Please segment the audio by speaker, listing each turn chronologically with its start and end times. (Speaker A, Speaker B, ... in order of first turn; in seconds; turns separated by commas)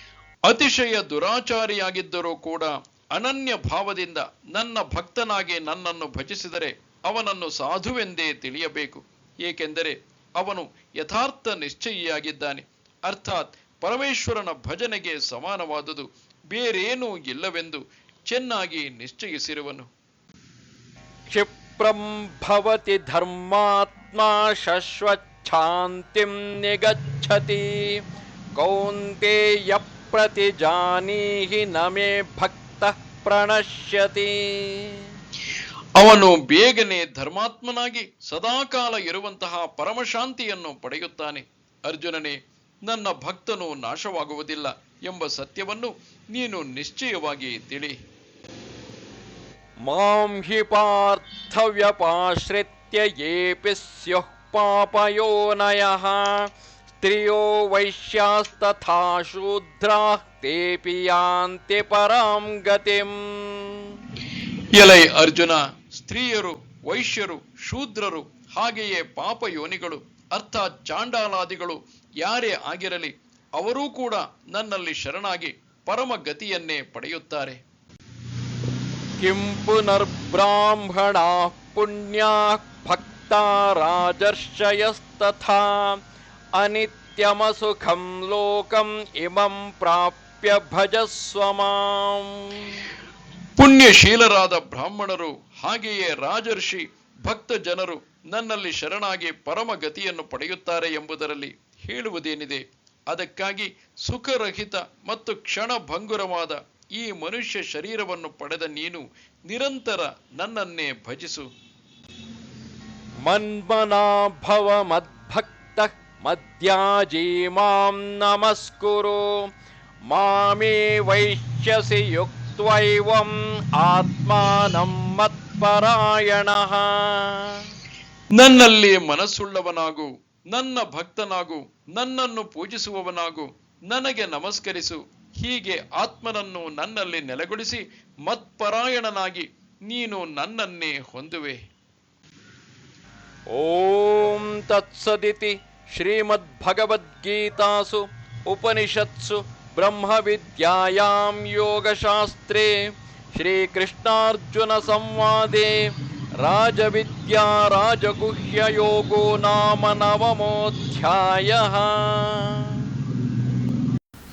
Speaker A: 0.5-19.9, Speaker B: 21.3-28.0, Speaker B: 28.6-35.1, Speaker A: 36.0-48.0, Speaker B: 49.8-56.5, Speaker B: 57.0-64.0, Speaker A: 64.8-77.6, Speaker B: 79.2-86.0, Speaker B: 86.6-92.8, Speaker A: 93.6-111.5, Speaker B: 113.2-119.4, Speaker B: 120.1-127.7, Speaker A: 128.4-141.6, Speaker B: 143.5-152.7, Speaker B: 153.3-155.9, Speaker B: 156.4-162.9